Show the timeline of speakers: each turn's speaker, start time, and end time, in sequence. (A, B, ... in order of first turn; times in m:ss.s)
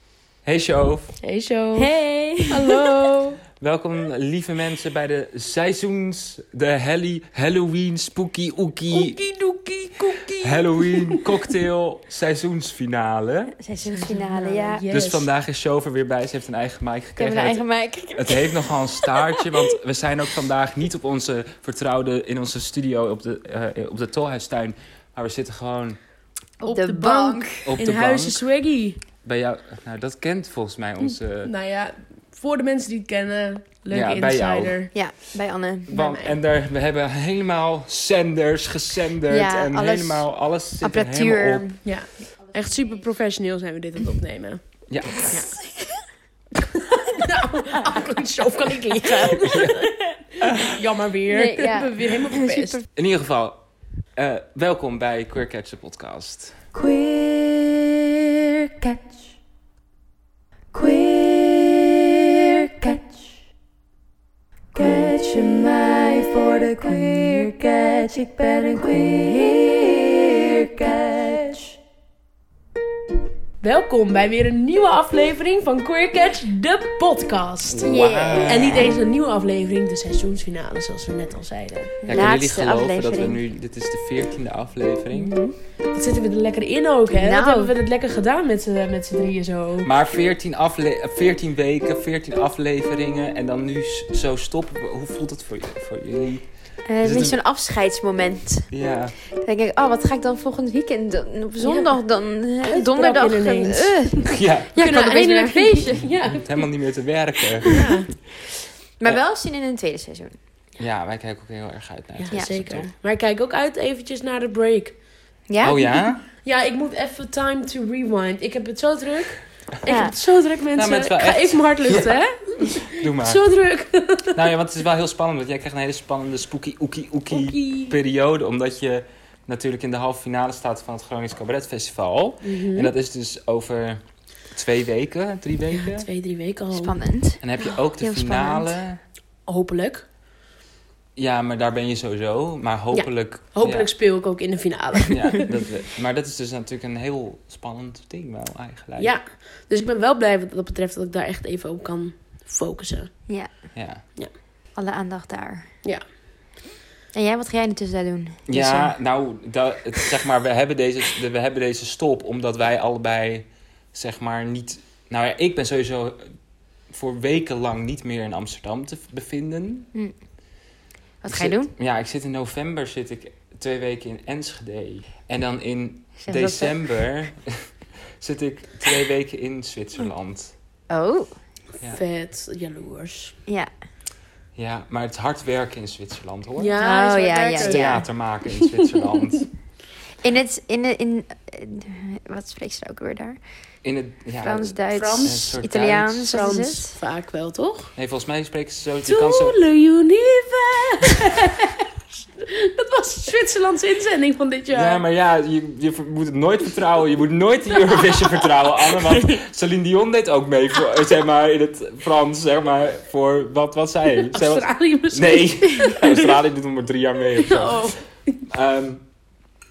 0:00.4-0:01.2 A
0:01.2-0:02.0 B
0:01.8-0:02.9 C
0:02.5-0:03.4 B
0:03.6-0:09.2 A
0:08.9-0:11.4 B
0:10.4-0:13.6 A
0:13.6-0:14.8 C
0:13.8-0:15.3 B
0:14.9-0:26.0 A
0:17.2-0:19.8 C
0:26.6-0:29.0 B
0:26.7-0:27.8 C
0:27.6-0:28.4 A
0:29.2-0:31.5 A
0:31.4-0:34.9 B
0:33.9-0:34.8 A
0:34.9-0:36.1 C
0:35.9-0:41.7 A
0:35.9-0:36.3 B
0:39.3-0:41.9 C
0:41.8-0:45.5 B
0:42.5-0:43.0 C
0:44.9-0:45.3 A
0:45.3-0:46.0 C
0:46.7-0:52.8 B
0:49.0-0:49.3 C
0:49.5-0:49.8 A
0:50.4-0:50.7 A
0:51.3-0:52.8 C
0:53.0-0:53.6 A
0:54.2-0:56.6 A
0:56.7-0:59.2 C
1:00.7-1:03.3 C
1:04.7-1:11.7 C
1:04.8-1:07.8 B
1:08.4-1:09.6 B
1:10.4-1:11.6 B
1:13.6-1:22.2 B
1:17.6-1:19.0 A
1:17.8-1:18.9 C
1:22.1-1:25.4 A
1:22.1-1:23.4 C
1:25.1-1:25.5 C
1:25.9-1:29.9 B
1:27.1-1:27.7 C
1:29.8-1:36.5 A
1:36.9-1:38.7 C
1:37.0-1:37.4 A
1:38.7-1:39.2 A
1:39.3-1:46.1 C
1:41.6-1:41.9 B
1:42.6-1:46.6 B
1:44.3-1:44.7 A
1:46.2-1:47.7 A
1:47.6-1:47.9 C
1:47.7-1:48.1 B
1:49.0-1:50.4 C
1:50.8-1:52.9 A
1:52.2-1:55.0 B
1:52.3-1:52.9 C
1:55.5-1:56.0 C
1:55.6-1:56.2 A
1:56.4-2:04.4 B
1:59.9-2:00.1 C
2:00.7-2:03.4 A
2:04.4-2:16.1 A
2:07.3-2:08.0 B
2:12.4-2:12.9 B
2:15.8-2:17.0 B
2:16.7-2:17.5 C
2:17.4-2:19.0 A
2:18.0-2:18.8 C
2:19.5-2:20.1 B
2:21.2-2:23.9 A
2:22.9-2:25.5 B
2:25.1-2:29.1 A
2:29.0-2:33.1 B
2:33.7-2:34.0 A
2:34.8-2:35.7 C
2:37.1-2:38.9 C
2:38.5-2:46.3 A
2:46.9-2:49.9 A
2:51.2-2:51.7 C
2:51.3-2:57.7 A
2:56.2-2:56.8 C
2:58.2-3:00.5 A
3:00.9-3:01.3 C
3:01.8-3:03.4 B
3:04.6-3:06.8 A
3:06.6-3:09.5 B
3:06.8-3:08.1 C
3:07.6-3:09.5 A
3:10.2-3:13.4 C
3:13.8-3:16.3 A
3:14.4-3:17.0 C
3:14.9-3:15.6 B
3:16.2-3:17.9 B
3:18.0-3:19.6 A
3:19.0-3:25.0 B
3:24.7-3:37.9 A
3:34.1-3:36.4 B
3:37.4-3:38.0 B
3:38.5-3:39.0 A